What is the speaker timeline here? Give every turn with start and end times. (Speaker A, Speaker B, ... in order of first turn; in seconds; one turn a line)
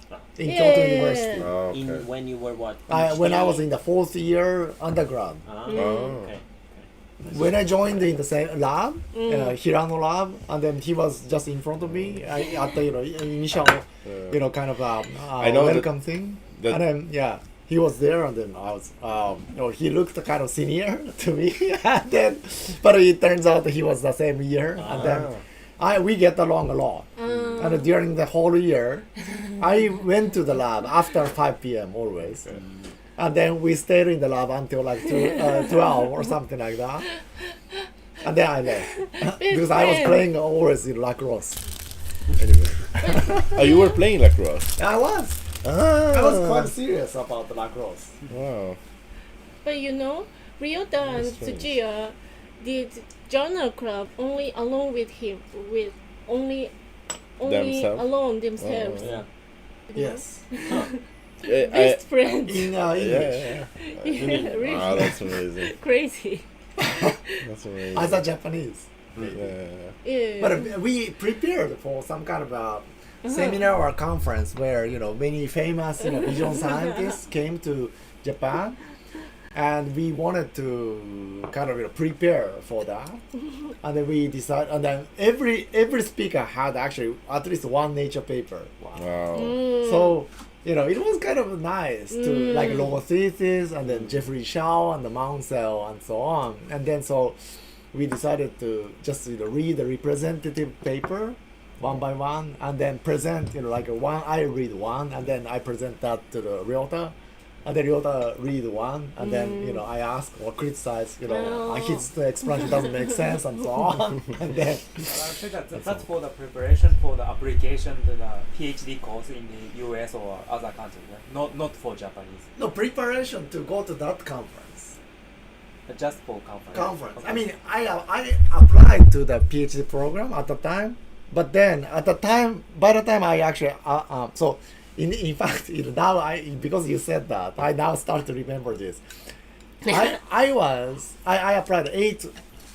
Speaker A: 0.3-1.5
Speaker B: 0.4-1.5
Speaker C: 1.4-2.1
Speaker D: 1.7-3.7
Speaker A: 2.9-5.4
Speaker D: 5.5-7.5
Speaker C: 5.7-6.3
Speaker B: 5.7-6.2
Speaker A: 7.2-29.1
Speaker B: 9.1-9.6
Speaker C: 14.0-14.3
Speaker C: 15.3-15.9
Speaker C: 16.5-16.8
Speaker D: 24.8-25.3
Speaker B: 27.2-27.9
Speaker A: 29.6-32.5
Speaker A: 33.2-37.1
Speaker A: 38.2-41.6
Speaker B: 38.9-40.3
Speaker A: 42.3-43.5
Speaker B: 43.0-44.0
Speaker C: 43.5-44.8
Speaker A: 44.8-45.4
Speaker C: 45.6-46.6
Speaker A: 46.1-48.1
Speaker C: 48.3-48.8
Speaker B: 49.6-56.7
Speaker C: 51.1-51.7
Speaker B: 57.4-59.2
Speaker C: 57.4-59.2
Speaker D: 59.0-59.2
Speaker B: 59.9-62.8
Speaker A: 59.9-60.4
Speaker C: 61.4-62.2
Speaker A: 62.5-63.6
Speaker C: 62.9-65.7
Speaker B: 63.8-66.4
Speaker A: 66.8-67.2
Speaker C: 67.4-68.2
Speaker A: 67.9-69.5
Speaker C: 69.2-69.9
Speaker B: 70.0-70.8
Speaker A: 70.4-78.8
Speaker B: 73.2-73.6
Speaker A: 79.5-83.2
Speaker A: 83.8-88.7
Speaker C: 88.9-89.7
Speaker B: 89.3-90.1
Speaker A: 89.7-97.4
Speaker B: 92.2-92.8
Speaker A: 97.9-115.1
Speaker B: 109.2-109.8
Speaker B: 111.2-112.1
Speaker E: 115.0-122.5
Speaker A: 122.6-125.0
Speaker E: 125.9-127.5
Speaker A: 126.7-139.0
Speaker A: 139.8-142.3